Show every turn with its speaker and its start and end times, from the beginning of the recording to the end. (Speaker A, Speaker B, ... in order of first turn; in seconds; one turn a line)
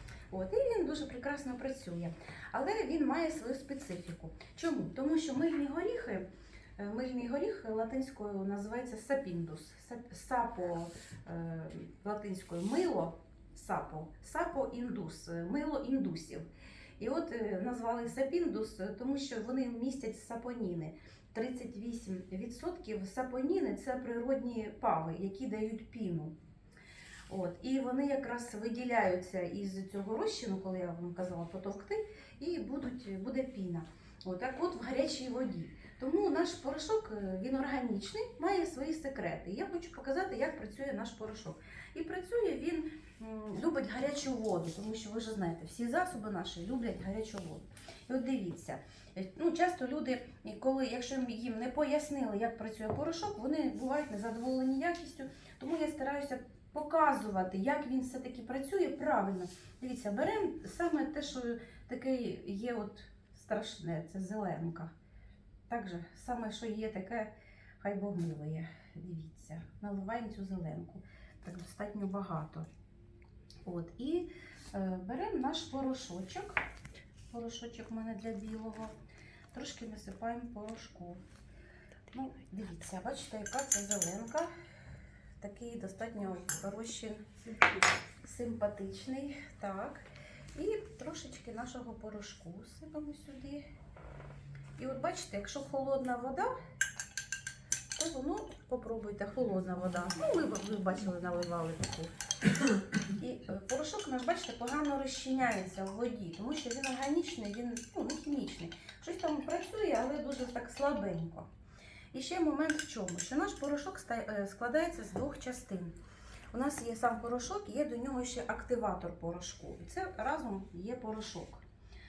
Speaker A: 0.3-6.3
Speaker A: 6.8-16.5
Speaker A: 17.0-26.4
Speaker A: 27.3-64.9
Speaker A: 65.7-72.7
Speaker A: 73.7-76.6
Speaker A: 77.3-79.0
Speaker A: 79.5-81.2
Speaker A: 82.1-84.5
Speaker A: 85.4-87.2
Speaker A: 88.2-93.6
Speaker A: 94.8-96.5
Speaker A: 98.0-102.1
Speaker A: 103.1-111.5
Speaker A: 112.1-116.0
Speaker A: 116.5-121.6